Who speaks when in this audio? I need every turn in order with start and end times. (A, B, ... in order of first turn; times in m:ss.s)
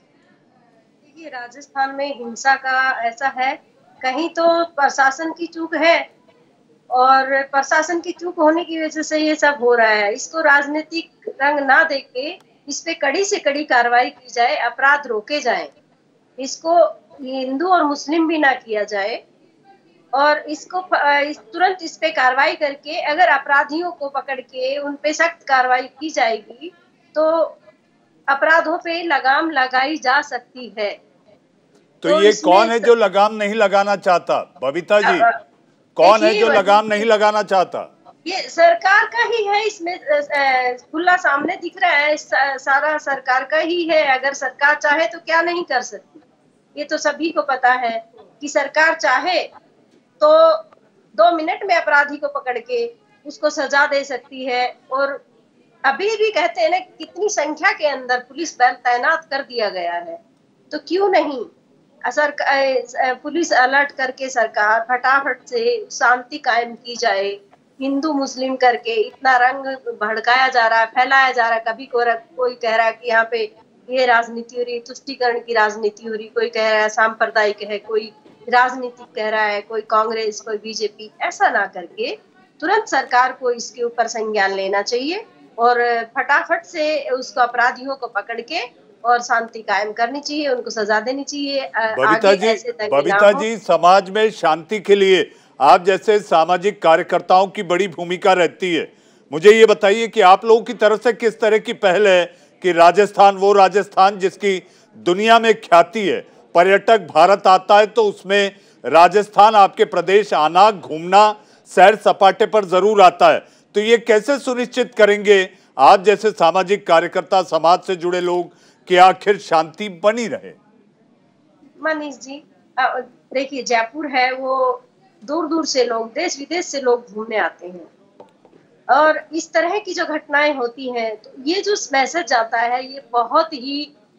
0:01.0-0:06.1 A
0:06.9-0:15.7 A
0:16.4-0:19.2 A
0:20.1-0:27.6 A
0:28.3-0:31.0 A
0:32.0-0:35.3 B
0:32.0-0:32.9 A
0:35.0-0:35.3 A
0:36.0-0:37.9 B
0:36.0-0:37.0 A
0:38.2-0:46.1 A
0:46.7-0:49.5 A
0:50.2-0:55.2 A
0:55.9-1:00.2 A
1:00.7-1:01.5 A
1:02.0-1:33.4 A
1:31.9-2:00.6 B
2:01.8-2:07.9 A
2:08.9-2:13.9 A